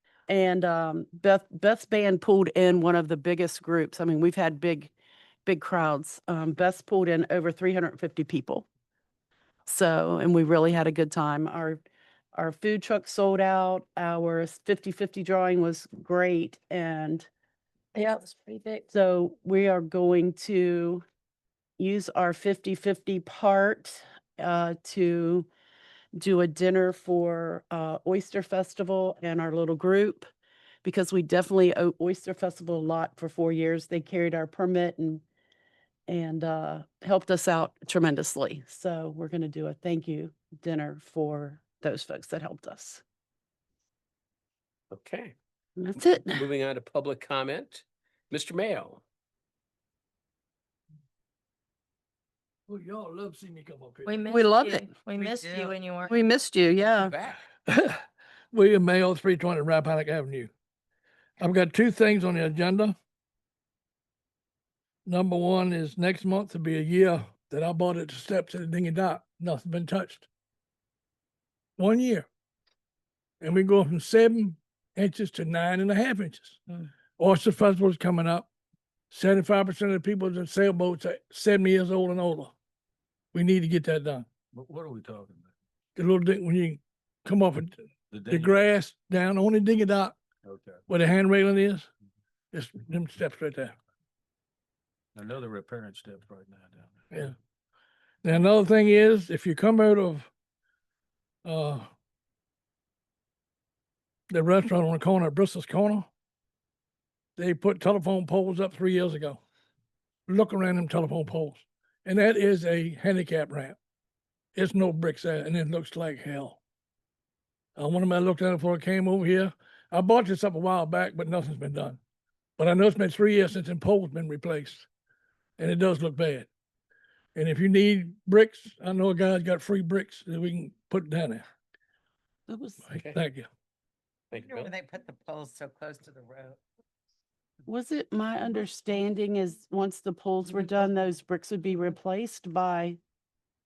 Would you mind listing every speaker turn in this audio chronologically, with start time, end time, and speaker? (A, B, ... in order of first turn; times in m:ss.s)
0:00.3-0:04.9 A
0:05.5-0:08.7 A
0:09.7-0:11.8 A
0:12.3-0:17.3 A
0:18.0-0:18.9 B
0:18.9-0:21.0 A
0:21.8-0:25.5 A
0:26.2-0:30.3 A
0:30.8-0:35.2 A
0:36.1-0:43.0 A
0:44.9-0:45.4 C
0:45.8-0:46.4 A
0:46.0-0:49.0 C
0:52.7-0:54.1 D
0:54.1-0:56.1 B
0:54.3-0:54.9 A
0:55.3-0:55.7 E
0:56.1-0:57.2 A
0:57.0-0:57.4 C
0:57.7-1:00.5 D
1:01.4-1:03.0 D
1:05.0-1:10.3 D
1:11.8-1:12.3 D
1:13.4-1:16.6 D
1:17.2-1:18.5 D
1:19.1-1:22.5 D
1:23.3-1:24.3 D
1:24.5-1:25.5 F
1:26.0-1:30.2 D
1:28.1-1:28.5 F
1:30.4-1:30.8 F
1:30.9-1:31.9 D
1:32.5-1:33.8 D
1:35.2-1:37.1 F
1:38.2-1:40.3 D
1:41.4-1:41.9 D
1:44.3-1:46.1 D
1:47.4-1:49.4 D
1:50.3-1:53.8 D
1:54.6-1:56.6 D
1:57.8-2:02.0 D
2:02.6-2:04.9 D
2:05.6-2:06.5 D
2:07.4-2:11.4 D
2:12.5-2:12.9 A
2:12.8-2:13.5 D
2:14.3-2:14.7 C
2:14.4-2:16.6 E
2:17.7-2:23.0 A